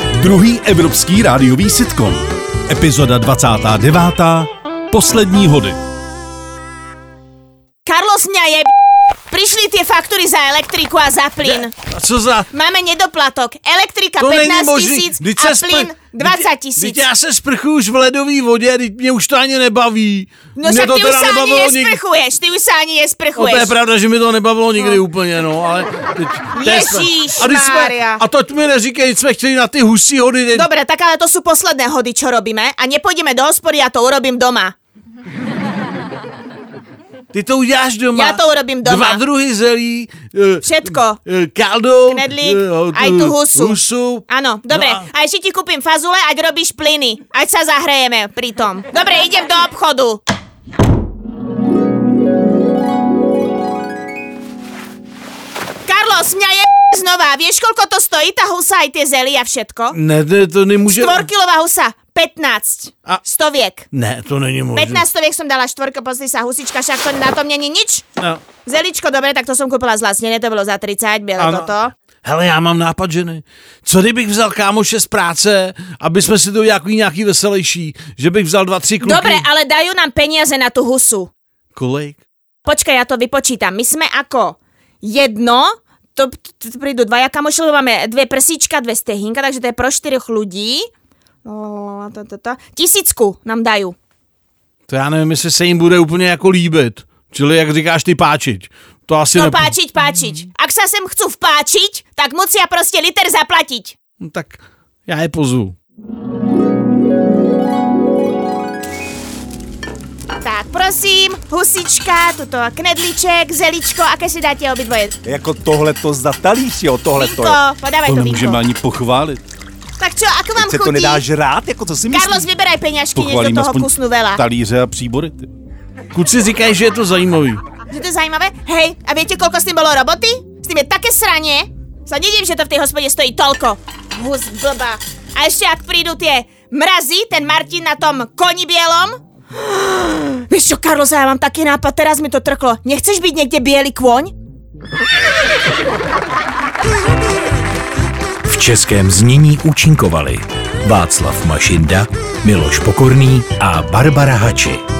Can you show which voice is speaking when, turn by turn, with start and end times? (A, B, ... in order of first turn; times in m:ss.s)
0:00.2-0:05.8 A
0:07.8-0:08.7 B
0:09.3-0:11.7 B
0:11.4-0:12.5 C
0:12.5-0:17.0 B
0:14.2-0:22.0 C
0:20.6-0:23.7 B
0:23.3-0:30.7 C
0:26.5-0:28.2 B
0:30.5-0:34.7 B
0:37.3-0:45.0 C
0:38.1-0:39.2 B
0:40.6-0:41.2 B
0:42.1-0:50.2 B
0:55.8-1:00.0 B
0:59.9-1:01.2 C
1:00.9-1:03.8 B
1:03.9-1:05.0 C
1:04.7-1:08.0 B
1:08.6-1:11.9 B
1:11.4-1:11.7 C
1:12.2-1:19.4 C
1:19.0-1:21.3 B
1:21.7-1:22.2 C
1:22.6-1:30.9 B
1:31.4-1:34.0 B
1:34.9-1:39.7 C
1:39.3-1:44.0 B
1:44.2-1:45.7 C
1:50.4-1:55.2 B
1:55.2-1:57.6 D
1:57.1-1:58.6 B
1:58.0-1:59.4 A
2:00.0-2:01.2 B
2:00.6-2:02.4 D
2:02.1-2:04.4 B
2:03.1-2:05.5 A
2:06.1-2:07.6 C
2:07.9-2:24.3 B
2:28.4-2:34.8 E